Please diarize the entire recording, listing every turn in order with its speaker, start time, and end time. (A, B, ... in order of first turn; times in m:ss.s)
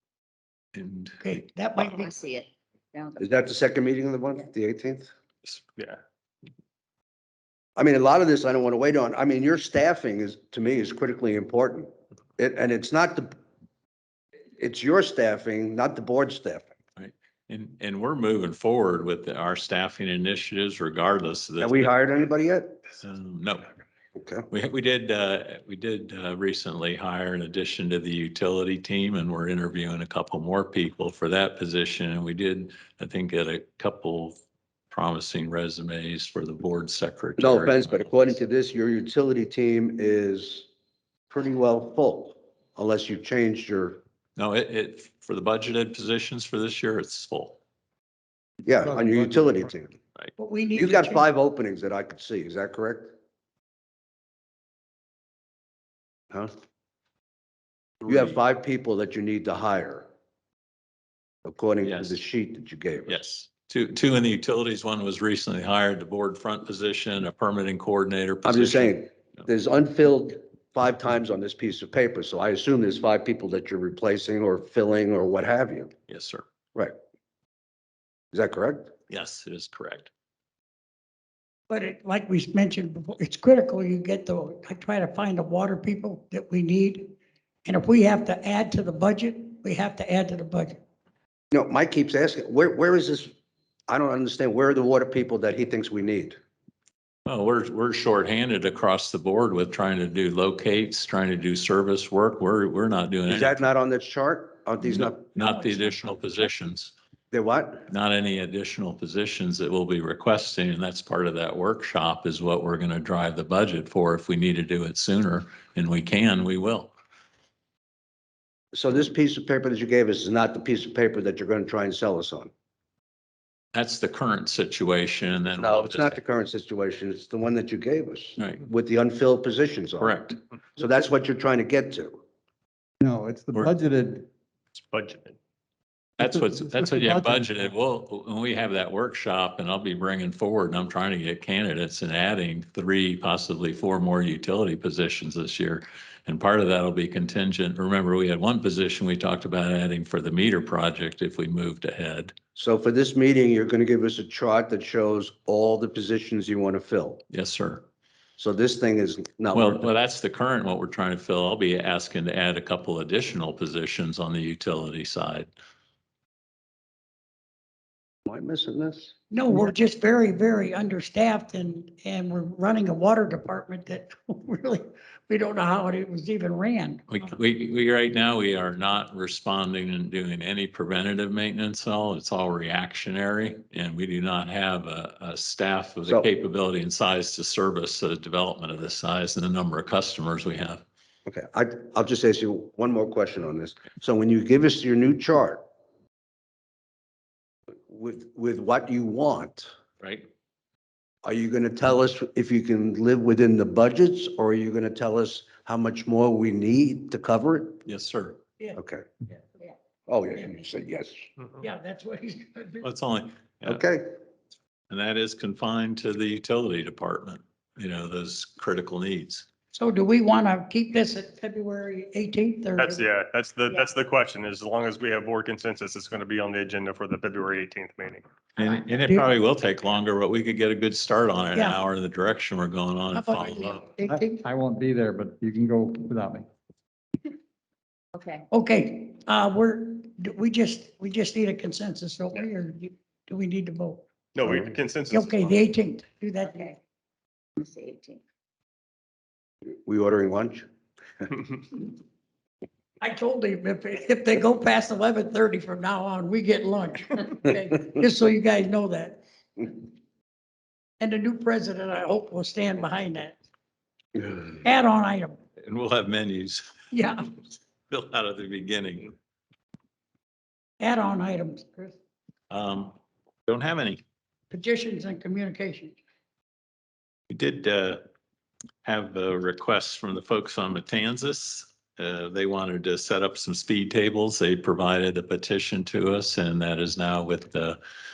0:00.7-0:01.4 A
0:01.2-0:02.1 B
0:01.8-0:03.4 C
0:03.2-0:05.1 D
0:07.8-0:13.3 D
0:14.6-0:16.7 D
0:17.0-0:21.9 A
0:21.6-0:22.8 D
0:23.0-0:23.7 A
0:24.2-0:24.5 D
0:24.5-0:34.4 A
0:34.9-0:38.2 A
0:37.4-0:40.7 D
0:41.3-0:44.0 D
0:44.4-0:47.6 A
0:48.6-0:49.9 D
0:48.8-0:49.7 E
0:50.4-0:51.3 B
0:50.8-0:53.1 D
0:58.0-0:58.4 A
0:58.0-1:00.1 D
1:01.4-1:03.2 D
1:01.8-1:02.2 A
1:03.0-1:09.4 A
1:08.4-1:15.9 D
1:16.1-1:16.4 A
1:18.3-1:18.9 D
1:19.1-1:20.1 A
1:21.7-1:30.8 B
1:31.5-1:33.3 D
1:33.9-1:36.4 D
1:37.2-1:43.7 A
1:43.3-1:45.2 D
1:44.8-1:46.9 A
1:45.4-1:46.0 B
1:47.3-1:47.8 D
1:47.9-1:56.9 A
1:58.7-2:02.5 D
2:03.7-2:06.2 A
2:05.6-2:10.2 D
2:08.4-2:08.6 A
2:10.0-2:10.4 A
2:10.8-2:12.2 D
2:13.0-2:14.3 E
2:14.8-2:15.4 F
2:16.2-2:32.3 A
2:16.2-2:17.5 E
2:32.6-2:37.2 D
2:37.3-2:37.8 A
2:38.4-2:39.9 D
2:39.5-2:45.5 A
2:48.3-2:49.1 D
2:49.3-2:57.0 B
2:57.1-3:10.8 A
3:11.2-3:15.6 D
3:17.9-3:19.7 D
3:20.0-3:20.2 A
3:21.2-3:27.8 D
3:27.8-3:28.4 A
3:28.7-3:29.0 D
3:30.1-3:31.2 D
3:31.6-3:32.8 B
3:32.8-3:33.8 A
3:33.6-3:34.2 D
3:34.9-3:39.4 A
3:39.7-3:43.0 B
3:42.8-3:48.2 F
3:43.7-3:43.9 C
3:48.6-3:53.9 A
3:51.5-3:51.8 B
3:53.1-3:54.4 B
3:54.0-3:56.4 E
3:58.1-3:58.4 C
3:58.5-4:04.0 B
4:04.3-4:05.6 F
4:04.4-4:04.7 D
4:05.1-4:06.7 B
4:06.4-4:06.8 C
4:07.6-4:08.2 C
4:09.8-4:10.6 D
4:13.0-4:19.8 B
4:21.0-4:23.4 B
4:24.6-4:25.4 B
4:25.6-4:26.7 A
4:26.9-4:27.3 B
4:27.9-4:29.1 A
4:30.8-4:32.0 B
4:32.5-4:34.0 A
4:34.5-4:36.0 B
4:37.3-4:38.0 A
4:38.8-4:47.8 A